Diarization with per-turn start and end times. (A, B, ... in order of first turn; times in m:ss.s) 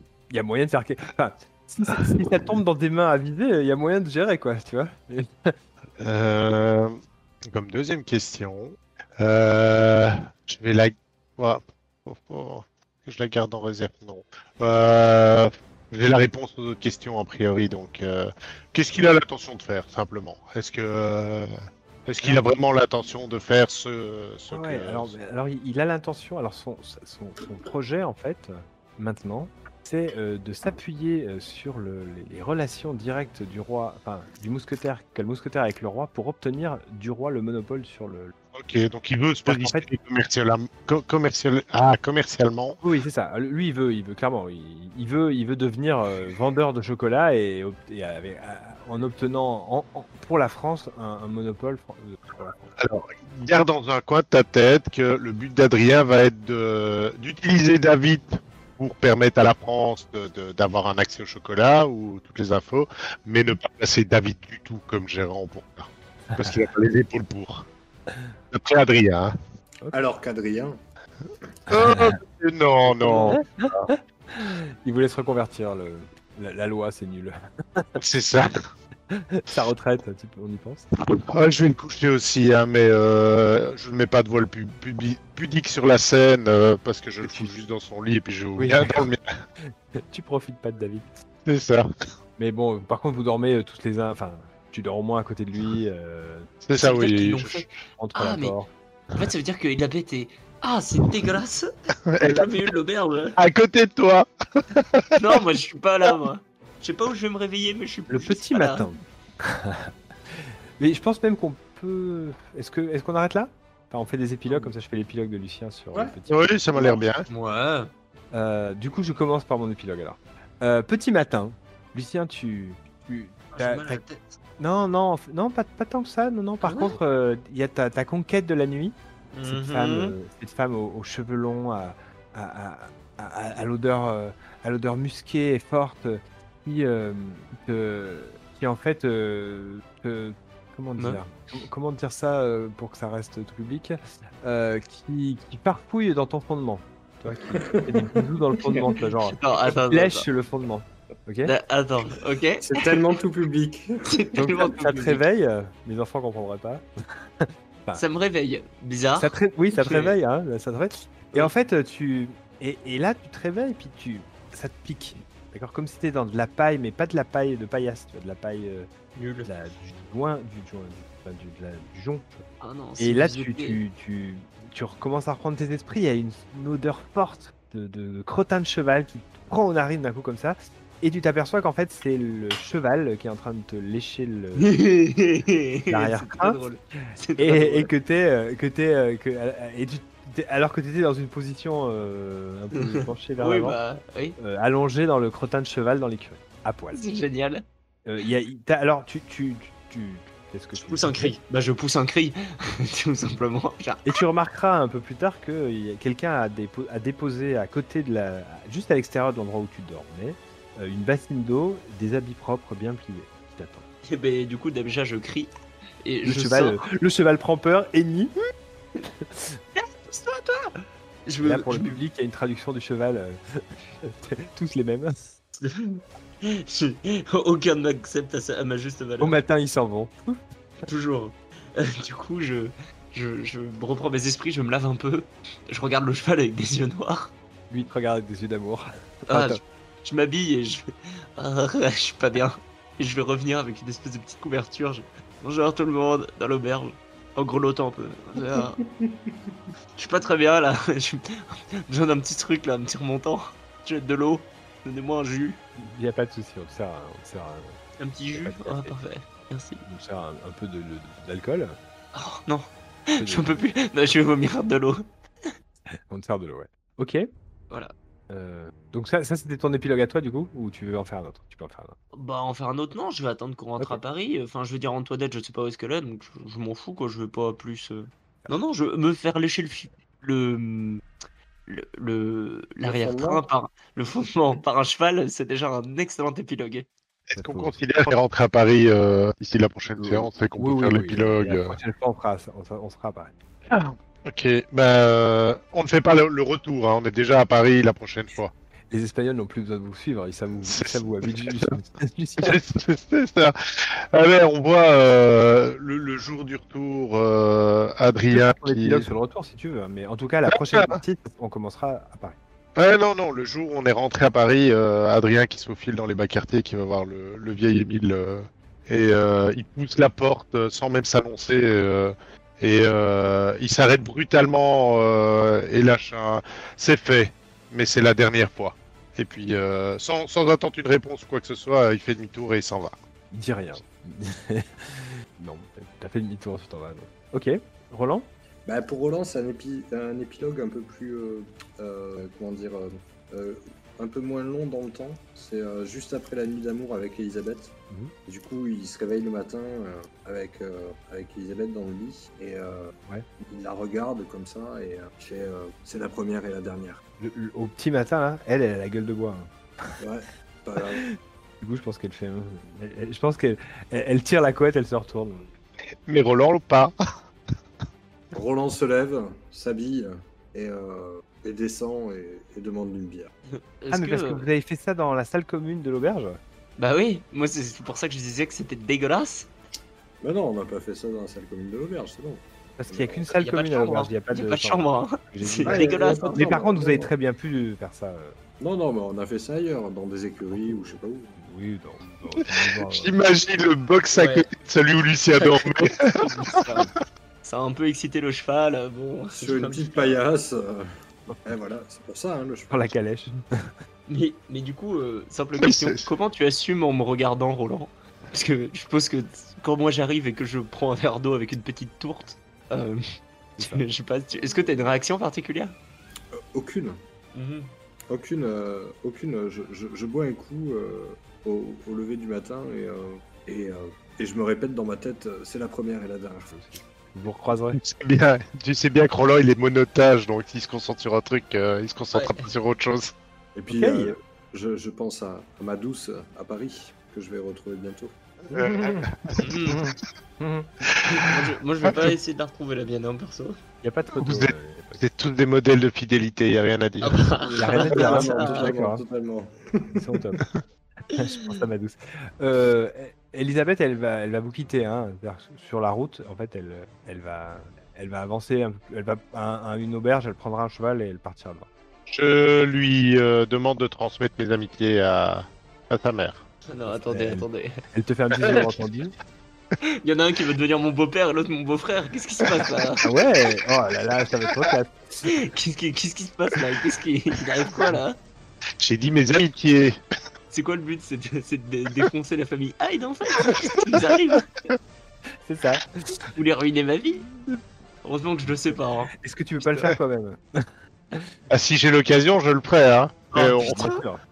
0:00.3-0:05.6 A
0:06.0-0:07.0 B
0:07.5-0:21.5 B
0:22.1-0:25.1 B
0:24.5-0:38.3 A
0:38.5-0:42.8 B
0:39.5-0:39.9 A
0:42.8-0:52.7 A
0:52.8-1:07.7 B
1:08.5-1:09.3 B
1:09.9-1:10.8 C
1:11.7-1:13.9 B
1:11.7-1:12.2 A
1:12.9-1:18.0 A
1:18.0-1:18.7 B
1:19.1-1:20.9 A
1:21.1-1:29.2 B
1:27.2-1:27.5 A
1:28.6-1:29.1 A
1:29.6-1:31.2 A
1:31.5-1:31.9 B
1:32.4-1:36.5 A
1:36.6-1:37.7 B
1:36.8-1:38.6 D
1:38.0-1:38.7 A
1:39.1-1:43.4 D
1:42.1-1:42.5 B
1:43.4-1:45.1 B
1:45.2-1:48.9 D
1:48.1-1:56.5 A
1:54.5-1:54.7 C
1:56.3-1:57.3 B
1:56.8-1:57.0 C
1:57.3-1:57.9 D
1:58.3-2:04.0 A
2:03.5-2:04.4 D
2:04.6-2:29.4 A
2:06.6-2:07.0 D
2:09.3-2:10.2 D
2:27.4-2:29.0 C
2:29.3-2:30.3 D
2:29.9-2:31.5 A
2:31.4-2:33.0 D
2:32.6-2:34.3 C
2:34.1-2:35.2 D
2:34.4-2:36.8 A
2:37.4-2:38.0 A
2:38.0-2:40.2 D
2:39.2-2:48.9 A
2:49.2-2:49.5 D
2:49.4-2:52.4 A
2:52.6-2:53.8 D
2:53.0-3:04.7 A
3:04.6-3:07.9 D
3:05.9-3:06.6 A
3:07.4-3:13.8 A
3:12.8-3:14.4 D
3:14.4-3:17.0 A
3:16.9-3:17.6 D
3:18.0-3:21.3 A
3:20.8-3:24.1 D
3:24.1-3:33.8 A
3:34.0-3:35.5 D
3:36.0-3:36.8 D
3:36.2-3:38.3 A
3:39.3-3:39.6 A
3:39.8-3:42.0 D
3:41.4-3:45.3 A
3:45.6-3:49.4 D
3:49.2-3:50.4 A
3:50.8-3:57.3 D
3:57.7-3:59.6 A
3:59.3-4:08.8 D
4:08.9-4:09.3 C
4:10.0-4:15.6 D
4:15.8-4:17.8 A
4:18.0-4:19.8 D
4:18.4-4:18.9 A
4:19.8-4:21.8 A
4:22.1-4:25.0 D
4:23.2-4:23.7 A
4:26.1-4:27.3 A
4:28.3-4:32.0 A
4:32.1-4:41.0 D
4:41.7-4:46.9 D
4:42.8-4:43.4 C
4:47.3-4:51.8 B
4:47.4-4:47.8 A
4:50.0-4:53.3 A
4:53.7-4:58.5 B
4:58.9-5:02.6 A
5:00.7-5:01.7 B
5:02.4-5:09.0 B
5:08.3-5:12.4 A
5:10.5-5:11.0 B
5:12.8-5:33.0 B
5:33.3-5:38.3 A
5:38.7-5:57.0 C
5:57.2-6:00.0 A
6:00.0-6:01.0 C
6:00.8-6:05.5 A
6:06.1-6:07.0 B
6:08.3-6:13.3 C
6:13.5-6:14.5 D
6:13.9-6:16.4 A
6:16.8-6:19.5 D
6:20.2-6:23.3 C
6:22.8-6:28.4 A
6:23.3-6:26.5 D
6:25.6-6:27.1 C
6:28.6-6:31.4 C
6:30.5-6:33.1 A
6:32.5-6:36.2 B
6:34.2-6:34.4 D
6:35.4-6:36.9 D
6:37.4-6:40.0 D
6:39.3-6:40.9 C
6:41.4-6:42.9 C
6:42.7-6:43.7 A
6:44.1-6:53.0 D
6:45.6-6:45.9 B
6:53.6-6:53.8 A
6:53.6-6:55.8 D
6:56.3-6:57.0 C
6:57.3-6:57.7 D
6:58.1-7:06.5 C
7:06.5-7:07.8 A
7:07.8-7:13.1 B
7:12.1-7:12.5 D
7:13.6-7:18.2 C
7:13.7-7:14.2 A
7:18.5-7:19.7 B
7:18.6-7:19.1 A
7:19.4-7:19.8 D
7:19.7-7:20.7 A
7:20.9-7:21.3 B
7:21.0-7:23.6 D
7:23.8-7:25.0 A
7:24.2-7:27.4 B
7:27.0-7:28.7 D
7:27.4-7:30.2 C
7:27.6-7:29.0 A
7:29.9-7:30.4 A
7:31.1-7:31.6 D
7:31.1-7:41.7 A
7:42.1-7:46.4 B
7:46.7-7:47.8 D
7:46.9-7:49.1 A
7:48.4-7:48.7 D
7:49.9-7:53.0 D
7:53.0-7:55.0 A
7:55.2-7:58.2 D
7:58.8-8:00.0 B
8:00.5-8:04.5 D
8:05.4-8:06.2 A
8:06.4-8:07.3 D
8:08.0-8:09.1 D
8:09.2-8:11.3 A
8:11.5-8:13.8 B
8:13.3-8:14.0 D
8:13.6-8:14.2 A